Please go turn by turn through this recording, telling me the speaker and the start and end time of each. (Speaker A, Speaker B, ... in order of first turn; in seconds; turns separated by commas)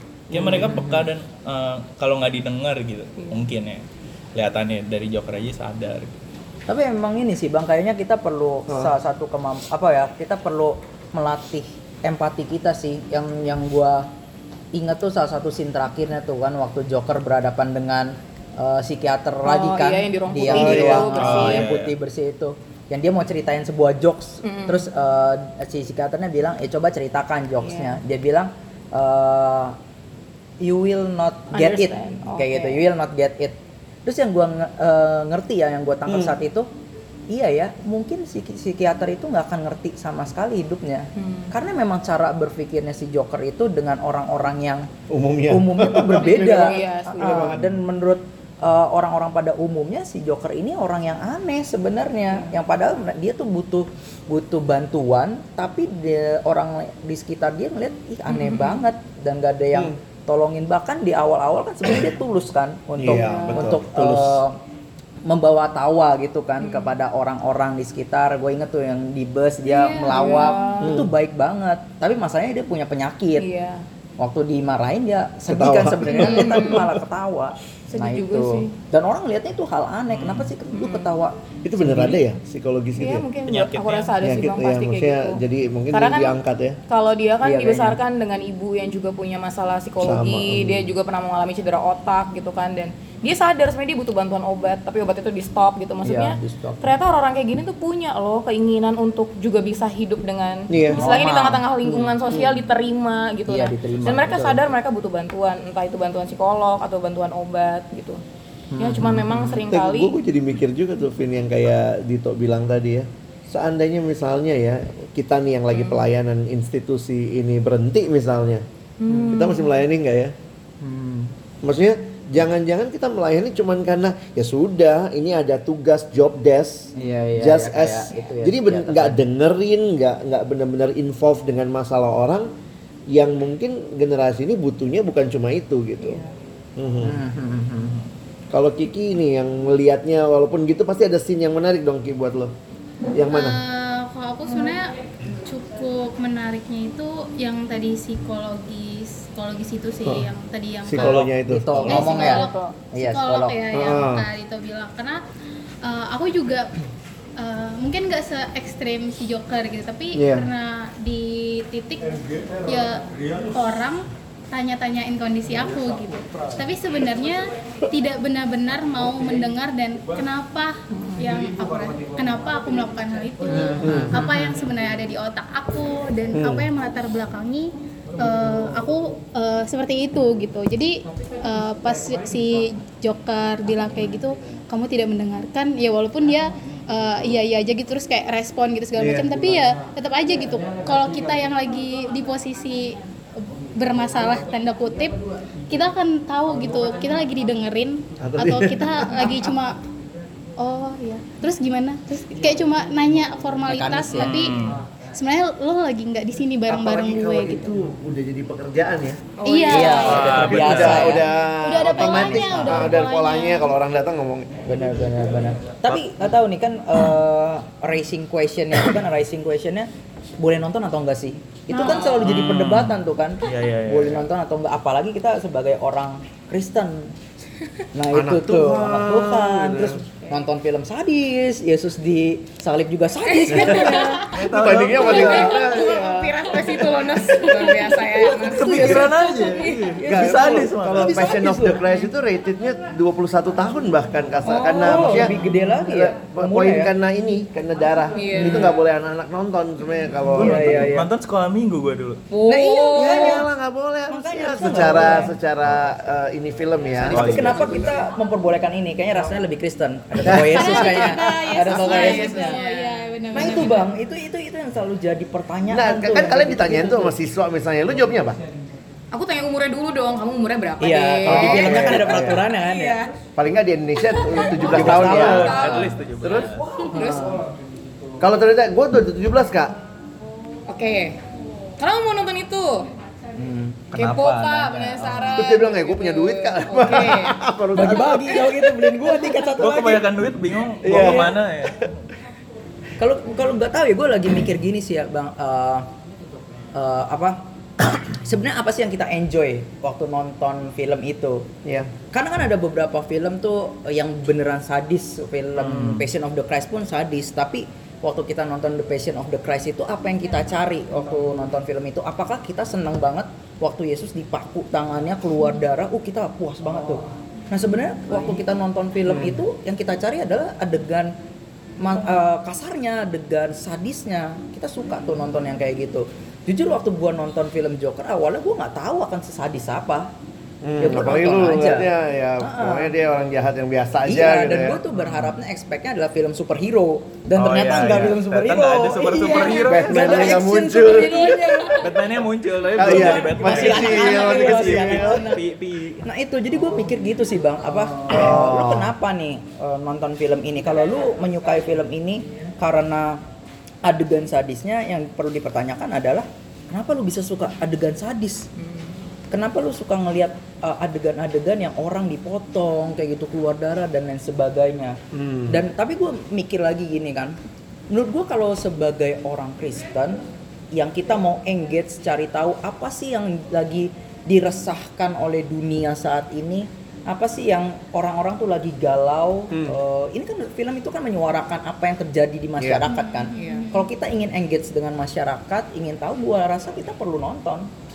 Speaker A: 0.3-3.8, Speaker B: 0.3-1.1, Speaker A: 4.3-6.2, Speaker B: 6.7-14.1, Speaker B: 14.7-29.8, Speaker C: 19.4-21.7, Speaker D: 20.5-21.1, Speaker A: 21.1-21.9, Speaker C: 24.4-24.9, Speaker C: 27.6-28.0, Speaker B: 30.6-36.7, Speaker C: 31.5-32.8, Speaker D: 36.1-36.4, Speaker B: 37.3-44.9, Speaker C: 41.1-41.5, Speaker D: 45.1-47.8, Speaker B: 45.5-64.6, Speaker C: 46.1-47.6, Speaker C: 58.3-58.8, Speaker D: 63.0-64.4, Speaker C: 63.1-63.8, Speaker B: 65.2-73.5, Speaker C: 66.6-66.9, Speaker E: 69.7-70.8, Speaker C: 70.0-71.0, Speaker D: 70.8-71.1, Speaker C: 73.4-73.8, Speaker B: 74.2-82.2, Speaker D: 75.5-76.9, Speaker C: 76.0-76.9, Speaker C: 77.9-78.7, Speaker A: 80.1-80.5, Speaker C: 80.7-81.1, Speaker D: 81.6-83.2, Speaker C: 83.0-85.4, Speaker A: 83.5-84.2, Speaker D: 84.2-86.8, Speaker C: 85.9-86.4, Speaker C: 86.9-108.2, Speaker B: 87.4-88.0, Speaker D: 90.0-90.9, Speaker B: 96.0-96.9, Speaker D: 100.7-101.1, Speaker B: 100.9-102.2, Speaker B: 103.5-104.6, Speaker B: 108.7-109.6, Speaker C: 108.8-110.1, Speaker D: 109.6-118.7, Speaker C: 115.7-116.0, Speaker C: 119.0-119.7, Speaker D: 119.3-120.3, Speaker B: 120.8-121.3, Speaker D: 121.6-132.5, Speaker B: 127.0-129.2, Speaker D: 133.1-136.2, Speaker C: 136.0-136.3, Speaker D: 136.8-137.2, Speaker B: 137.0-138.0, Speaker D: 138.5-142.5, Speaker D: 143.1-143.6, Speaker E: 143.3-155.2, Speaker D: 150.8-151.9, Speaker A: 151.0-151.2, Speaker B: 151.5-153.6, Speaker C: 151.8-152.8, Speaker D: 153.7-154.2, Speaker E: 155.8-156.7, Speaker E: 157.4-199.8, Speaker D: 160.1-160.5, Speaker B: 173.6-174.3, Speaker D: 173.8-174.2, Speaker D: 176.3-176.7, Speaker D: 189.0-189.3, Speaker D: 198.2-199.2, Speaker E: 200.6-207.7, Speaker B: 203.6-204.5, Speaker A: 204.1-204.8, Speaker D: 206.7-209.2, Speaker C: 209.4-210.4, Speaker E: 209.4-213.8, Speaker B: 209.7-211.3, Speaker A: 209.9-211.2, Speaker D: 210.3-214.6, Speaker B: 212.0-212.9, Speaker B: 214.6-227.1, Speaker E: 221.8-222.1, Speaker C: 221.8-222.2, Speaker A: 222.2-224.2, Speaker B: 227.9-234.4, Speaker D: 228.1-230.0, Speaker C: 233.2-239.9, Speaker A: 234.3-235.6, Speaker D: 234.3-237.4, Speaker B: 238.2-241.9, Speaker A: 238.4-241.2, Speaker D: 240.0-250.9, Speaker C: 244.4-245.2, Speaker B: 244.5-246.9, Speaker C: 248.2-248.8, Speaker B: 248.3-248.8, Speaker B: 250.3-251.1, Speaker A: 250.3-252.2, Speaker C: 252.3-253.4, Speaker B: 252.5-253.5, Speaker D: 252.9-257.9, Speaker B: 254.1-255.3, Speaker B: 257.0-262.5, Speaker A: 257.1-257.6, Speaker D: 260.2-261.1, Speaker E: 260.5-263.9, Speaker C: 261.0-263.7, Speaker B: 263.3-267.2, Speaker D: 265.7-268.4, Speaker C: 269.1-272.3, Speaker B: 270.8-273.0, Speaker D: 271.2-272.5, Speaker D: 273.3-276.6, Speaker C: 274.2-277.4, Speaker B: 274.5-275.8, Speaker A: 274.6-276.7, Speaker B: 276.9-277.4, Speaker D: 278.2-279.8, Speaker C: 280.7-281.2, Speaker C: 281.8-282.9, Speaker B: 283.3-285.5, Speaker A: 283.9-285.1, Speaker C: 283.9-287.4, Speaker D: 285.3-288.7, Speaker B: 287.8-290.1, Speaker A: 289.6-292.0, Speaker D: 290.8-291.9, Speaker B: 290.8-291.4, Speaker B: 293.0-295.9, Speaker B: 296.7-301.5, Speaker D: 301.6-301.9, Speaker B: 302.1-321.1, Speaker A: 305.6-306.0, Speaker B: 321.8-330.1, Speaker D: 330.6-334.8, Speaker B: 330.8-332.9, Speaker B: 334.0-342.2, Speaker A: 334.9-335.3, Speaker A: 337.3-340.3, Speaker D: 339.6-341.4, Speaker A: 341.8-346.1, Speaker D: 342.8-345.2, Speaker B: 342.8-353.2, Speaker D: 348.1-348.9, Speaker B: 353.8-358.5, Speaker C: 358.6-359.1, Speaker B: 359.3-365.0, Speaker D: 365.1-365.6, Speaker B: 365.5-367.4, Speaker B: 367.9-370.2, Speaker B: 370.7-387.7, Speaker D: 379.5-379.8, Speaker D: 382.6-382.8, Speaker E: 382.9-383.9, Speaker C: 383.3-383.7